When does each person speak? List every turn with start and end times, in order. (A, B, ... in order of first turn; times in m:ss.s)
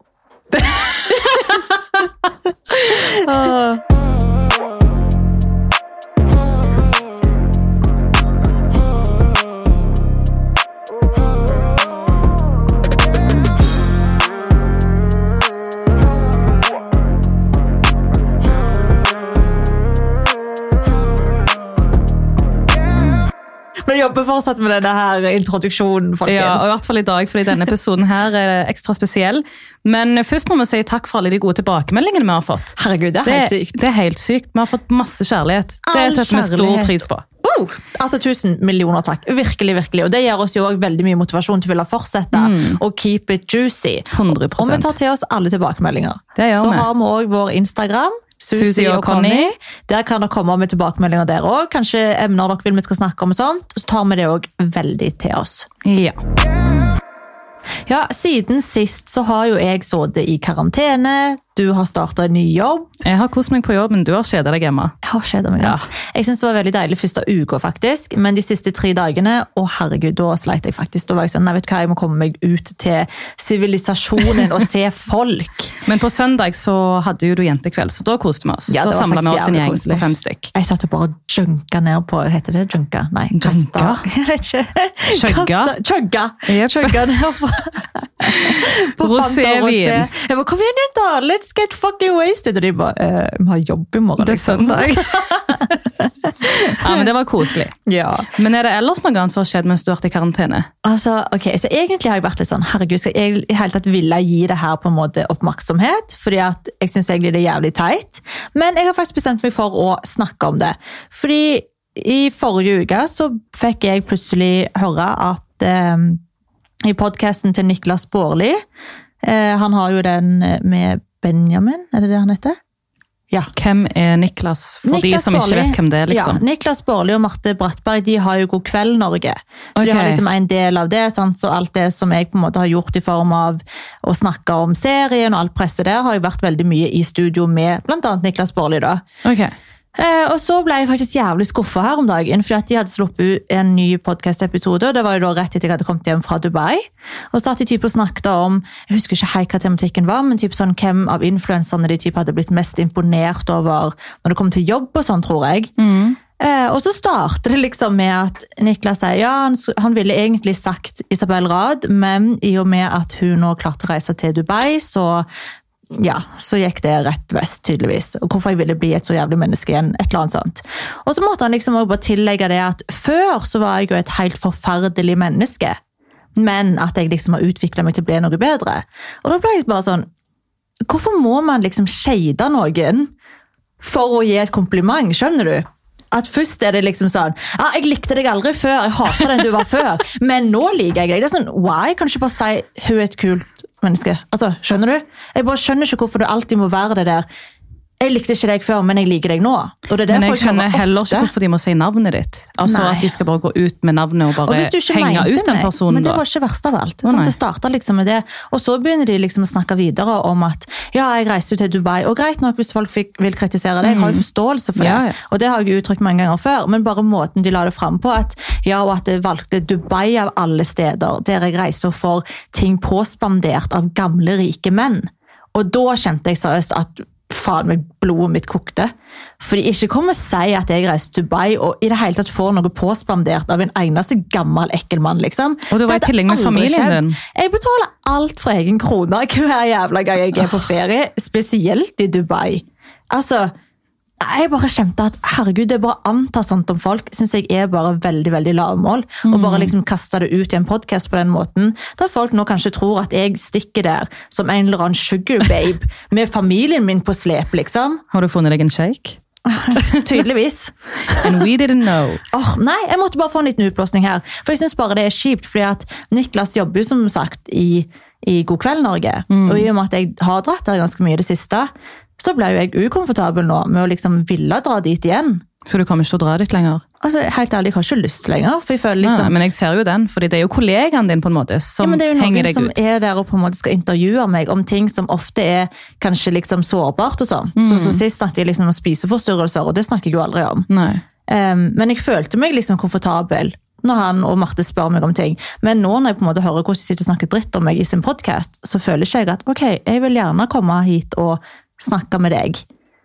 0:01.1-0:01.4 A
0:01.1-0:01.6 B
0:02.9-0:03.8 B
0:03.2-0:03.6 A
0:23.9-0:26.8 B
0:26.3-0:37.2 A
0:32.8-0:33.8 B
0:35.9-0:55.7 B
0:42.3-0:42.8 A
0:44.1-0:45.0 A
0:46.4-0:46.9 A
0:48.5-0:49.5 A
0:55.8-0:56.2 A
0:57.9-1:02.9 B
1:03.0-1:05.0 A
1:05.0-1:15.7 B
1:05.6-1:05.9 A
1:15.8-1:20.5 A
1:18.7-1:37.1 B
1:23.3-1:24.0 A
1:25.1-1:25.8 A
1:26.5-1:27.2 A
1:28.3-1:30.1 A
1:34.2-1:35.6 A
1:36.7-1:37.8 A
1:37.9-1:38.3 B
1:38.3-1:40.7 A
1:40.8-1:56.2 B
1:56.8-1:58.6 B
1:59.2-2:02.6 B
2:03.6-2:06.4 A
2:04.8-2:19.0 B
2:09.8-2:10.2 A
2:19.2-2:19.5 A
2:20.0-2:35.7 B
2:35.8-2:36.2 A
2:36.4-2:45.3 B
2:45.9-2:55.8 B
2:56.4-3:00.1 B
3:00.9-3:03.1 B
3:03.8-3:17.2 B
3:18.0-3:21.3 B
3:20.1-3:26.2 A
3:22.7-3:23.1 B
3:24.4-4:03.5 B
3:27.0-3:27.3 A
3:33.8-3:34.2 A
3:34.8-3:35.2 A
3:55.7-3:57.2 A
4:04.2-4:18.0 B
4:09.2-4:09.7 A
4:18.1-4:19.2 A
4:19.5-4:21.4 B
4:21.2-4:22.2 A
4:22.3-4:35.4 B
4:29.3-4:29.7 A
4:35.7-4:36.8 A
4:37.0-4:39.3 B
4:39.0-4:42.8 A
4:41.8-4:50.7 B
4:47.6-4:48.0 A
4:50.7-4:51.0 A
4:51.3-5:02.6 B